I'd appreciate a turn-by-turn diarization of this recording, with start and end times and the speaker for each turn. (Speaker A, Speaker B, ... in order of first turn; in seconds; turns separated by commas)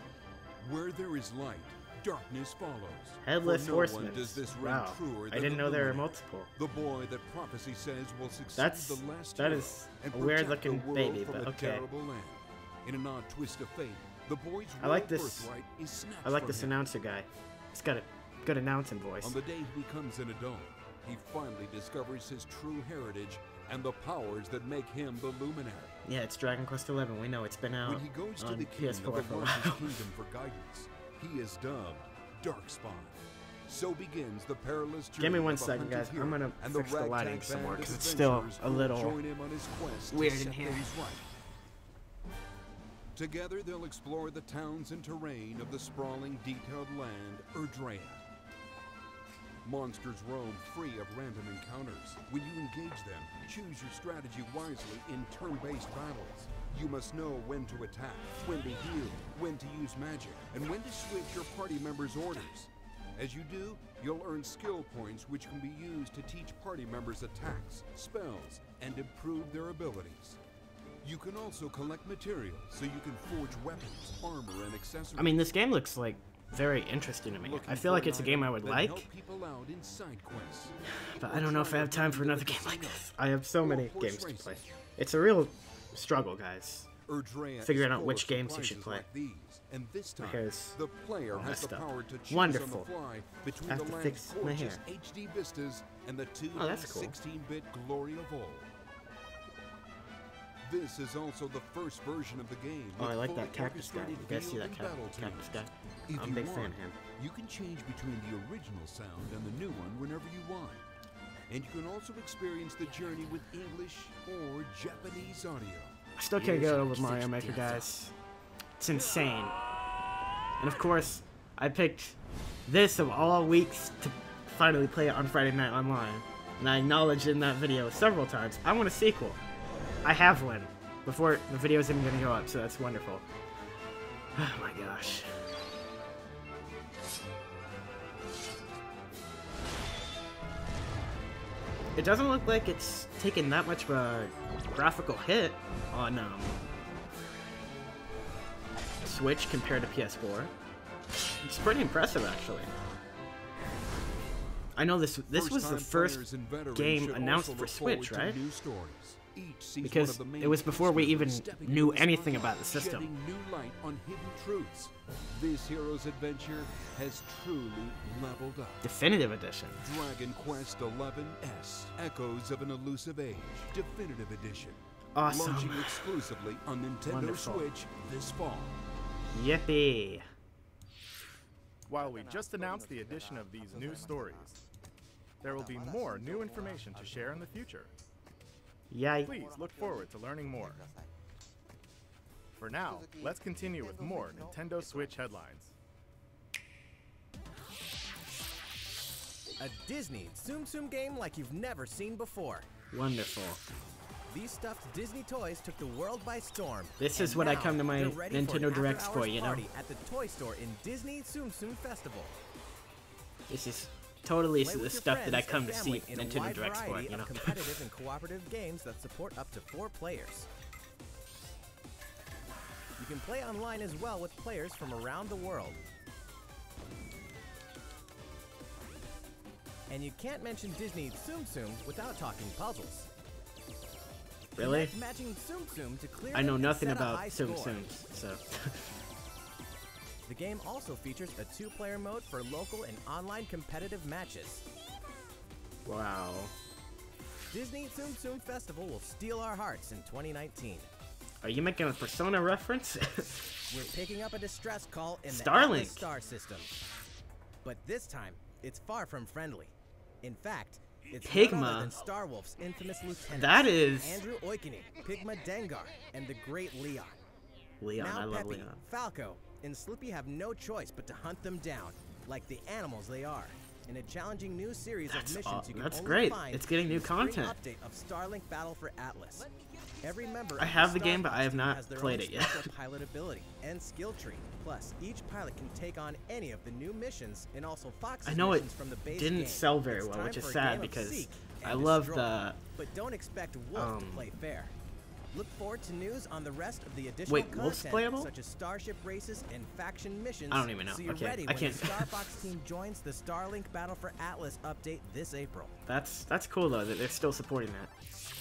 Speaker A: 0.6-16.8, Speaker B: 3.2-6.5, Speaker B: 8.6-11.8, Speaker B: 14.8-15.5, Speaker B: 16.2-19.4, Speaker A: 19.2-25.9, Speaker B: 26.0-29.9, Speaker A: 27.8-41.2, Speaker B: 35.2-39.2, Speaker B: 40.1-40.9, Speaker A: 43.1-48.2, Speaker A: 49.6-70.4, Speaker A: 71.0-75.4, Speaker B: 75.2-79.1, Speaker A: 77.4-80.8, Speaker B: 80.9-86.9, Speaker A: 81.3-84.8, Speaker A: 87.0-98.7, Speaker B: 87.6-89.1, Speaker B: 90.2-90.8, Speaker B: 91.3-92.9, Speaker B: 93.7-94.8, Speaker B: 96.5-97.2, Speaker A: 100.6-110.8, Speaker B: 103.0-107.0, Speaker A: 111.5-117.9, Speaker B: 116.2-118.1, Speaker B: 118.8-119.5, Speaker B: 120.6-129.4, Speaker B: 130.0-133.2, Speaker B: 134.3-135.3, Speaker B: 141.9-146.6, Speaker B: 149.0-150.5, Speaker B: 151.4-152.7, Speaker B: 154.8-156.2, Speaker A: 155.3-168.8, Speaker B: 156.7-158.4, Speaker B: 159.8-163.1, Speaker B: 168.8-169.8, Speaker A: 169.8-178.8, Speaker B: 175.1-176.1, Speaker B: 177.1-177.7, Speaker B: 179.3-180.3, Speaker C: 181.9-184.6, Speaker C: 185.4-187.9, Speaker B: 188.9-189.3, Speaker C: 189.2-190.9, Speaker C: 192.6-195.7, Speaker D: 199.6-202.7, Speaker B: 202.9-203.6, Speaker D: 204.3-212.4, Speaker B: 207.0-209.6, Speaker B: 213.5-217.7, Speaker D: 214.6-220.5, Speaker D: 223.0-225.8, Speaker D: 229.9-233.1, Speaker B: 234.6-234.9, Speaker D: 234.6-237.9, Speaker B: 236.3-238.8, Speaker D: 240.3-244.6, Speaker B: 245.8-246.5, Speaker D: 247.5-250.9, Speaker B: 251.4-253.6, Speaker D: 253.7-256.7, Speaker B: 255.3-256.1, Speaker D: 257.6-267.2, Speaker B: 261.2-261.9, Speaker B: 263.3-264.2, Speaker B: 267.8-268.8, Speaker D: 268.0-279.5, Speaker B: 275.1-277.6, Speaker D: 280.0-294.7, Speaker B: 280.6-282.7, Speaker B: 288.2-292.6, Speaker B: 293.7-294.3, Speaker D: 295.3-305.7, Speaker B: 297.3-298.3, Speaker B: 300.5-302.2, Speaker B: 305.9-307.9